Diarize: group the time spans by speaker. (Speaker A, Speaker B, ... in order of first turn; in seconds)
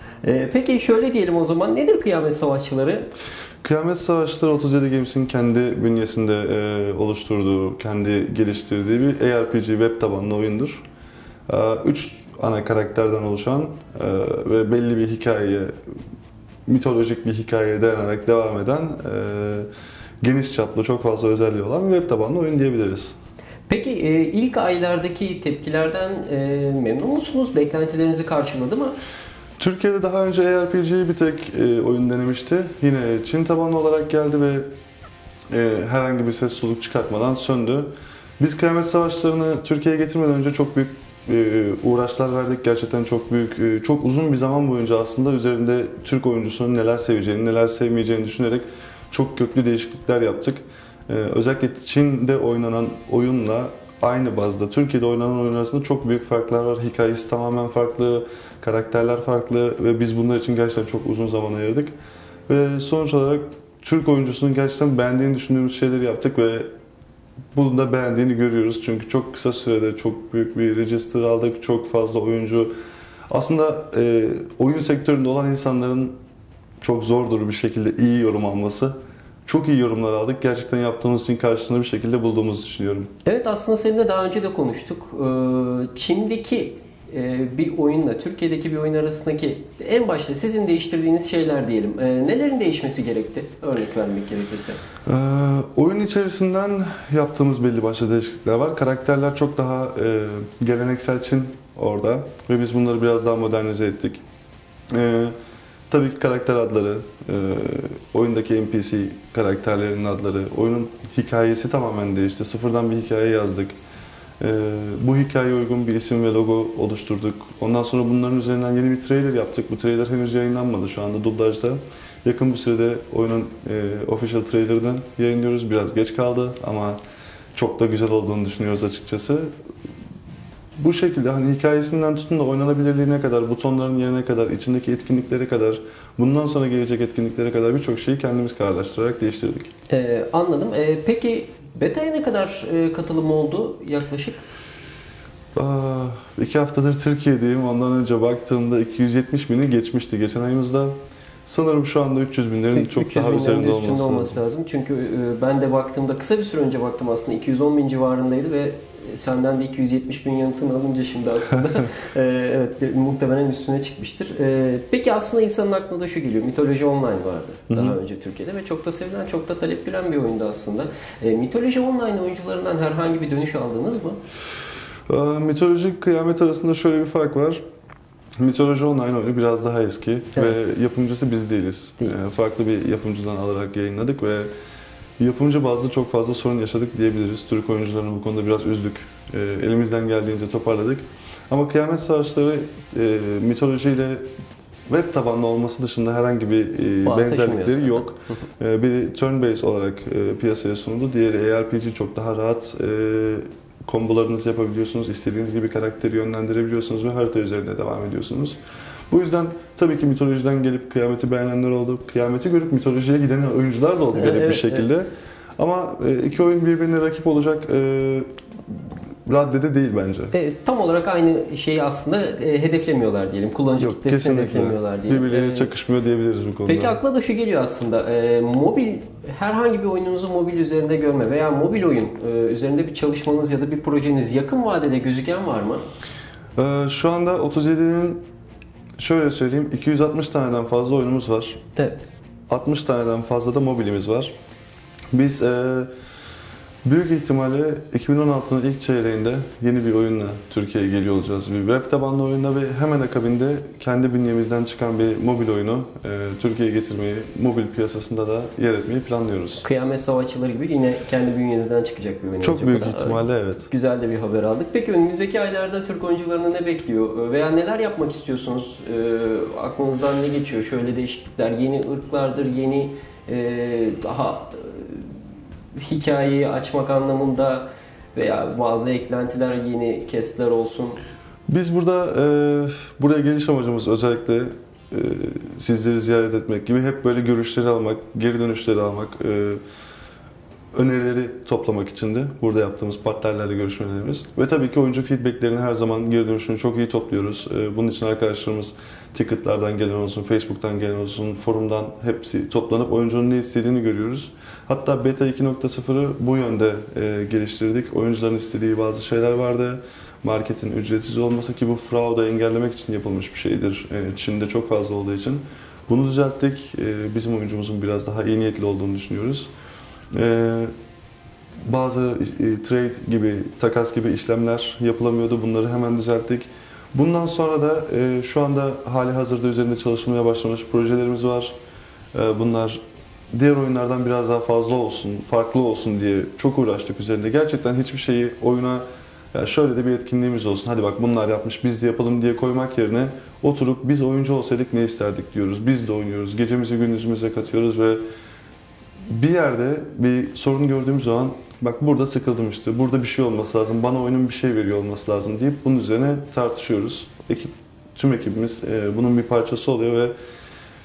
Speaker A: 0.2-3.1, 23.7-29.0, 83.2-94.8, 139.9-144.4, 152.7-174.2, 180.3-180.6, 197.0-198.1, 214.1-214.8, 220.3-225.7, 226.7-235.8, 241.8-242.0, 259.6-275.1, 275.7-281.0
Speaker B: 3.6-10.8, 11.5-15.7, 16.7-19.7, 20.2-23.1, 29.6-34.7, 35.5-61.9, 62.5-66.7, 67.5-72.7, 73.3-76.1, 76.8-78.9, 79.5-83.1, 95.0-104.2, 104.9-105.3, 105.9-113.8, 114.4-127.0, 127.5-129.5, 130.8-139.7, 145.6-150.9, 151.4-154.4, 167.7-168.0, 175.1-177.6, 178.4-184.5, 185.2-194.3, 194.9-208.6, 209.1-218.3, 219.2-220.3, 223.8-227.0, 236.6-238.2, 239.0-241.6, 242.5-244.3, 245.1-245.9, 246.8-259.6, 262.4-263.7, 281.5-289.6, 290.7-319.5, 320.1-320.7, 321.6-331.5, 332.1-332.8, 333.3-348.0, 349.1-360.1